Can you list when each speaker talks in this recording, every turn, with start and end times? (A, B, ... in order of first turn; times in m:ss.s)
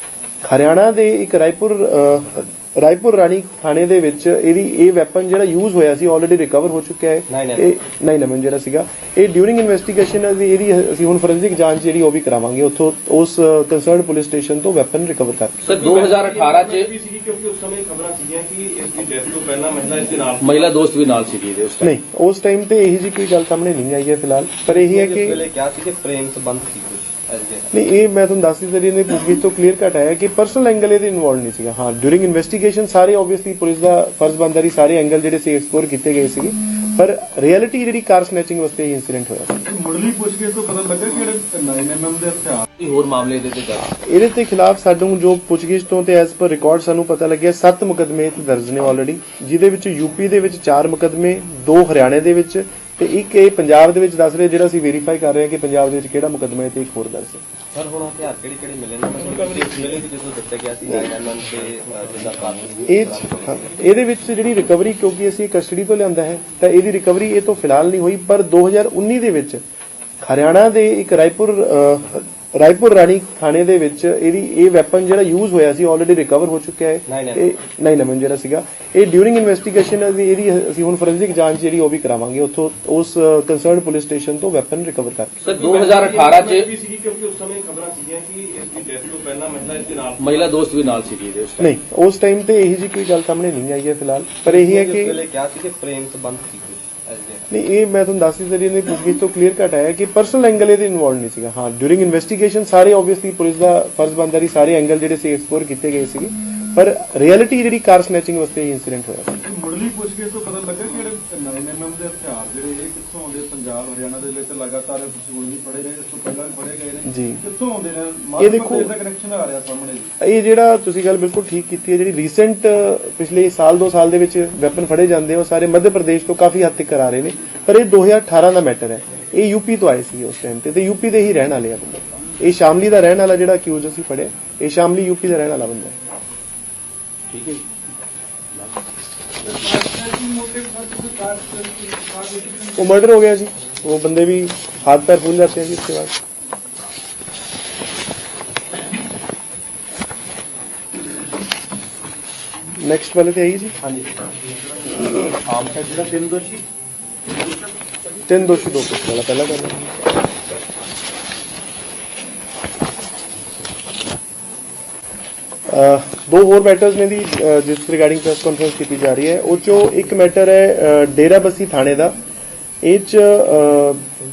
0:00.4-0:15.7 A
0:07.3-0:07.7 B
0:15.6-0:16.9 C
0:20.4-0:21.9 C
0:21.8-0:25.4 A
0:24.7-0:27.7 B
0:27.7-0:39.6 A
0:39.7-0:42.6 D
0:42.8-0:43.9 C
0:43.8-0:57.4 A
0:57.7-1:03.6 B
0:59.3-0:59.9 E
1:02.8-1:09.6 A
1:10.2-1:25.4 A
1:17.1-1:17.4 B
1:25.4-1:26.7 C
1:25.8-1:27.8 E
1:30.2-1:31.7 C
1:31.6-1:35.2 A
1:34.4-1:37.5 B
1:37.5-1:49.4 A
1:49.4-2:00.1 D
1:57.0-1:57.4 A
1:58.4-1:58.9 A
2:00.2-2:16.0 A
2:17.3-2:17.6 C
2:19.4-2:19.8 C
2:19.5-2:22.8 D
2:22.7-2:26.2 A
2:32.8-2:33.7 A
2:38.2-2:40.1 A
2:45.7-2:52.1 A
2:52.8-2:54.0 A